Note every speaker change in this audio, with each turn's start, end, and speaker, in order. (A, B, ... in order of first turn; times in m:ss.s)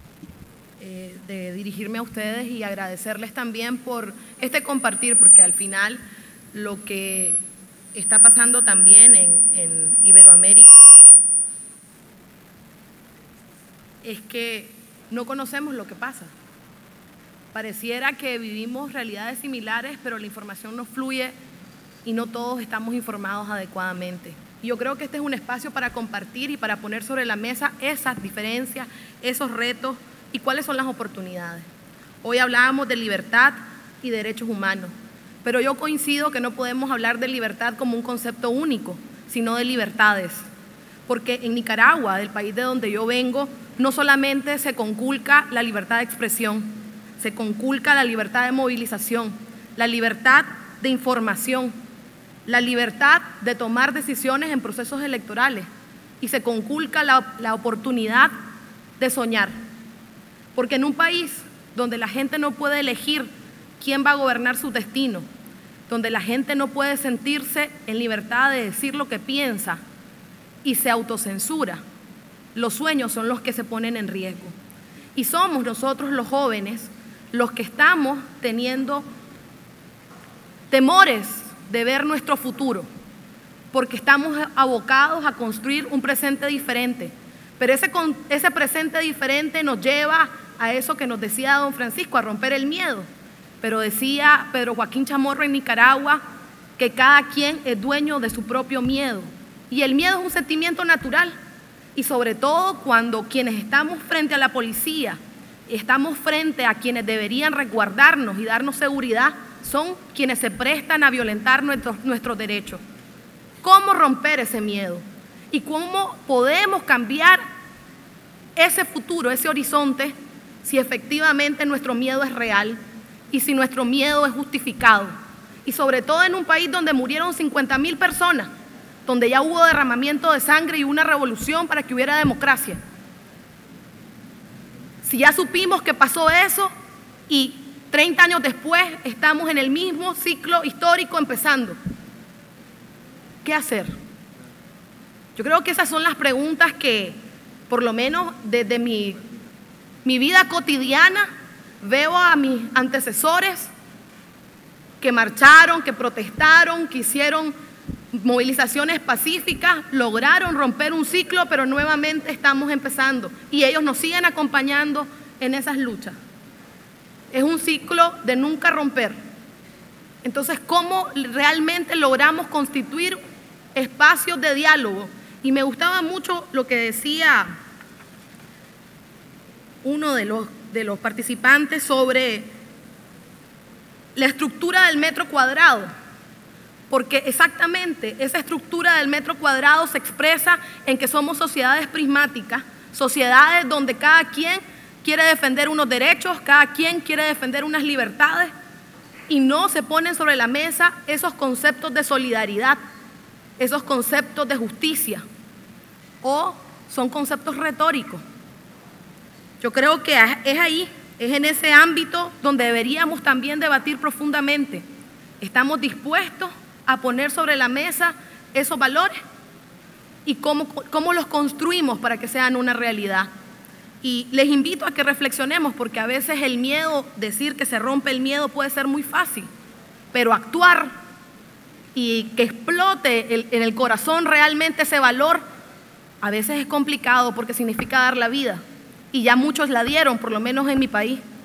0:00.8-0:06.0 A
0:06.5-0:07.4 A
0:07.9-0:10.9 A
0:14.0-0:16.3 A
0:17.5-0:21.3 A
0:22.0-0:31.7 A
0:32.2-0:34.9 A
0:35.4-0:40.5 A
0:41.1-0:51.7 A
0:52.5-0:55.7 A
0:56.2-0:58.3 A
0:59.0-0:59.5 A
1:00.6-1:05.2 A
1:05.9-1:09.8 A
1:10.6-1:11.8 A
1:12.6-1:14.5 A
1:15.2-1:19.0 A
1:20.7-1:22.9 A
1:23.7-1:33.1 A
1:33.6-1:36.2 A
1:36.8-1:41.4 A
1:42.0-1:52.8 A
1:53.6-1:57.4 A
1:58.6-2:02.8 A
2:03.3-2:05.1 A
2:05.6-2:08.5 A
2:09.1-2:12.8 A
2:15.0-2:16.7 A
2:17.3-2:21.8 A
2:23.4-2:23.9 A
2:25.4-2:27.2 A
2:27.7-2:29.2 A
2:30.0-2:31.3 A
2:31.8-2:33.7 A
2:35.0-2:37.5 A
2:38.1-2:46.2 A
2:47.3-2:49.2 A
2:50.2-2:53.2 A
2:53.8-2:57.6 A
2:59.8-3:02.5 A
3:04.2-3:05.9 A
3:06.9-3:18.5 A
3:19.3-3:22.8 A
3:23.6-3:25.2 A
3:26.2-3:28.2 A
3:29.6-3:34.8 A
3:35.4-3:39.2 A
3:40.3-3:43.3 A
3:44.0-3:49.5 A
3:50.1-3:50.9 A
3:52.0-3:55.4 A
3:56.2-4:01.2 A